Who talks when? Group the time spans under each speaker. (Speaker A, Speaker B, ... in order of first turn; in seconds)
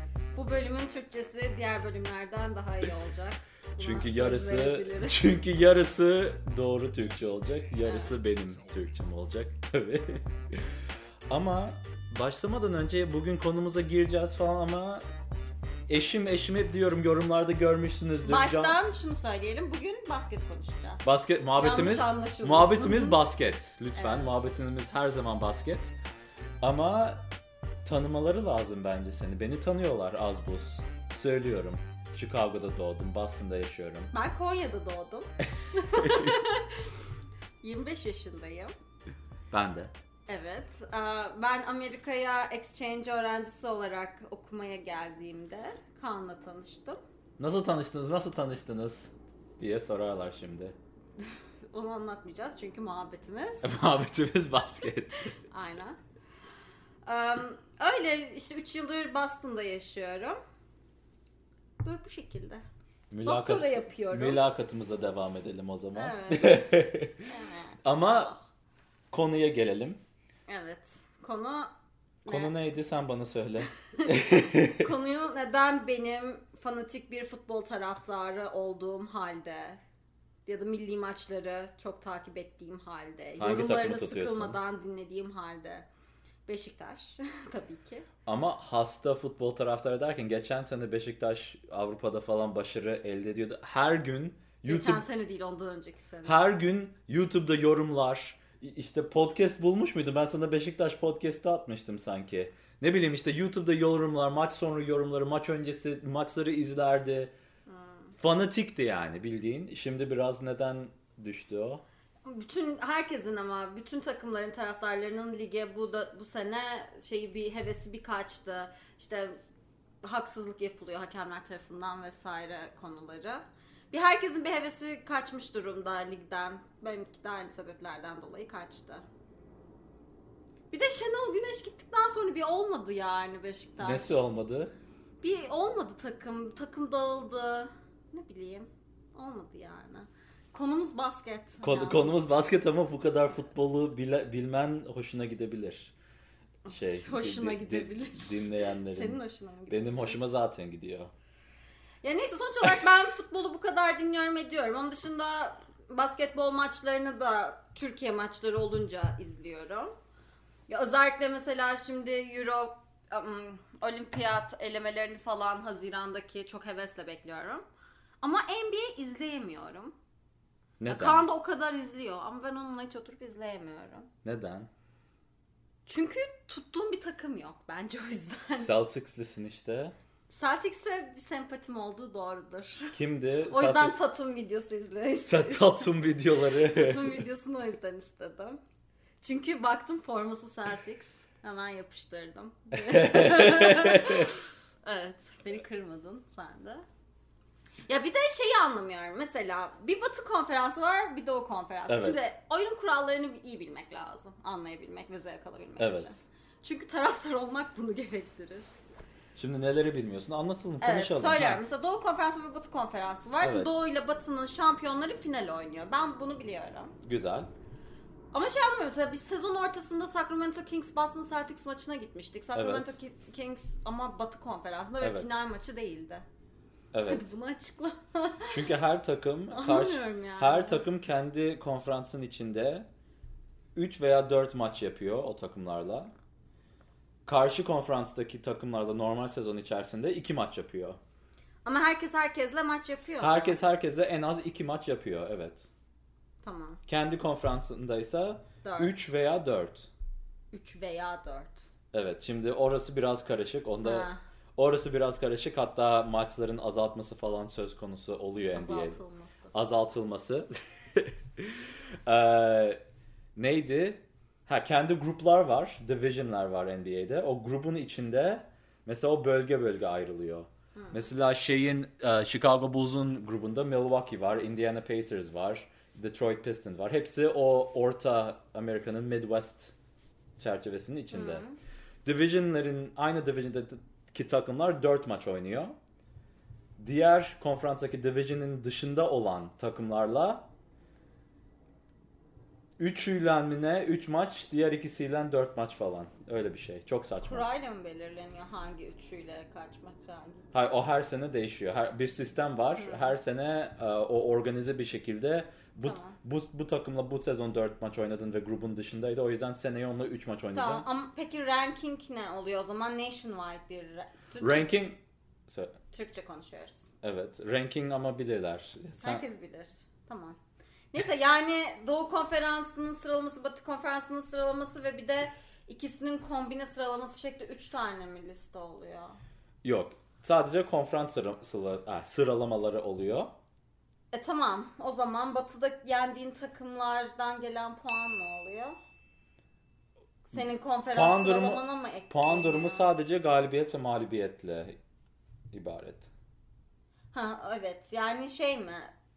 Speaker A: 0.3-5.2, 7.8-8.2, 18.2-23.2, 24.0-24.3, 34.1-37.0, 37.6-38.7, 40.3-47.0, 51.2-53.7, 55.5-56.0, 57.0-60.4, 61.8-62.6, 63.2-64.4, 65.9-66.7, 67.2-68.4, 70.5-71.7, 72.2-72.5, 73.7-79.8, 80.5-85.9, 86.5-88.1, 94.7-96.4, 107.7-108.2, 112.2-119.4, 120.0-129.0, 130.7-134.2, 135.2-142.3, 146.7-150.3, 152.0-159.9, 160.7-167.6, 168.2-169.9, 170.9-174.1, 175.8-178.7, 180.3-188.6, 189.2-196.8, 197.9-208.7, 210.8-216.9, 218.3-226.2, 227.1-228.6, 229.5-230.8, 241.6-243.6, 246.4-246.8, 248.6-248.9, 250.5-251.7, 253.8-254.2, 258.5-259.5, 270.8-271.1, 281.1-281.6, 297.2-300.5, 302.8-303.2, 305.8-306.1, 310.5-314.7, 315.9-316.9, 319.0-320.4, 320.9-329.2, 334.1-338.8, 340.3-342.9, 347.1-348.9
Speaker B: 3.8-10.7, 11.3-15.0, 15.9-18.8, 21.0-25.9, 26.6-27.2, 27.8-34.1, 35.7-36.4, 39.5-39.9, 47.4-50.8, 53.6-55.3, 63.1-67.2, 67.8-68.3, 69.1-70.0, 72.2-74.9, 83.4-84.6, 88.2-95.0, 96.2-107.3, 108.2-111.8, 133.8-134.7, 141.6-145.9, 146.7-151.1, 170.8-171.2, 174.2-174.7, 178.6-179.9, 182.9-183.9, 185.2-187.2, 192.7-194.3, 201.9-202.2, 205.8-206.2, 209.3-211.6, 213.4-213.7, 217.0-217.5, 222.5-222.9, 225.0-225.3, 226.9-227.2, 228.5-232.9, 233.7-236.1, 237.2-241.0, 243.2-245.7, 246.9-249.9, 251.9-259.0, 259.5-262.8, 263.4-279.7, 280.4-281.4, 282.0-285.7, 286.8-290.5, 292.8-297.4, 300.5-310.9, 314.4-315.8, 317.0-319.2, 329.6-333.3, 340.9-344.8, 345.5-346.1